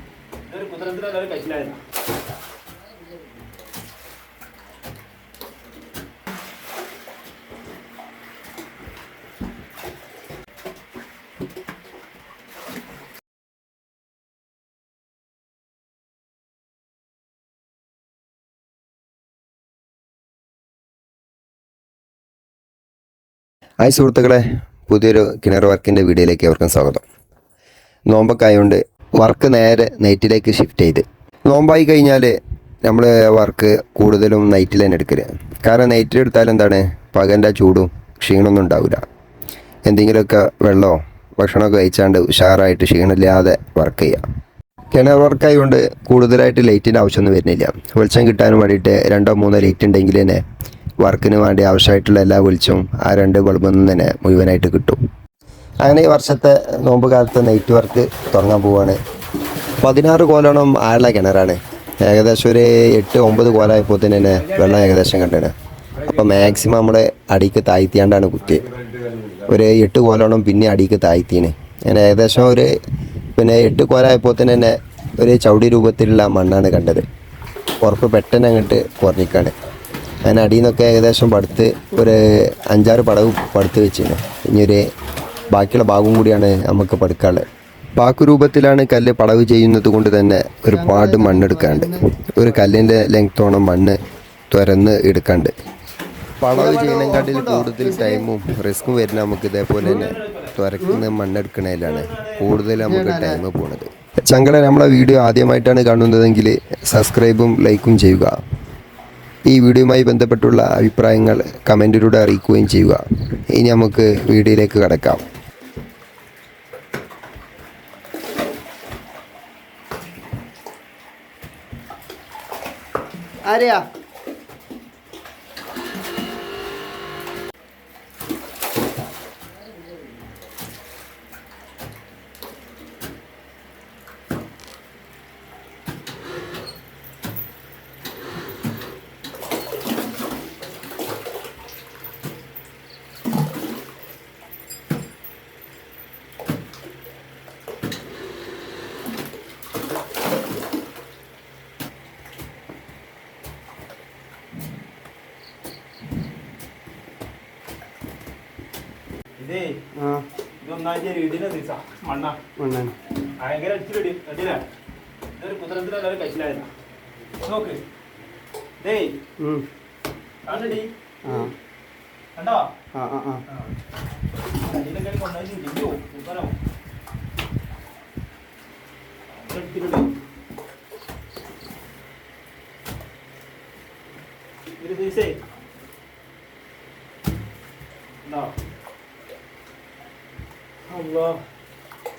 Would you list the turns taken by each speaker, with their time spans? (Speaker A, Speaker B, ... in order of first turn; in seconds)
Speaker A: 0.5-1.8, 99.8-100.5, 101.8-102.5, 159.4-159.8, 160.6-162.4, 163.4-164.7, 165.4-166.7, 167.4-167.8, 168.8-169.3, 170.4-171.5, 172.4-172.8, 173.5-173.7, 174.5-176.6, 179.3-180.2, 184.8-185.4, 188.2-188.6, 190.9-191.5
Speaker B: 23.8-27.0, 28.1-39.0, 39.9-44.2, 44.9-50.4, 51.0-55.0, 55.8-59.0, 59.8-68.7, 69.4-72.7, 73.4-77.0, 77.8-79.5, 80.2-84.8, 85.5-87.5, 88.0-94.0, 94.5-95.5, 96.4-108.4, 109.5-115.2
Speaker C: 90.7-92.1, 96.5-98.3, 102.8-103.4, 123.5-123.9, 159.9-160.2, 162.6-162.9, 169.4-169.7, 171.2-171.5, 172.9-173.4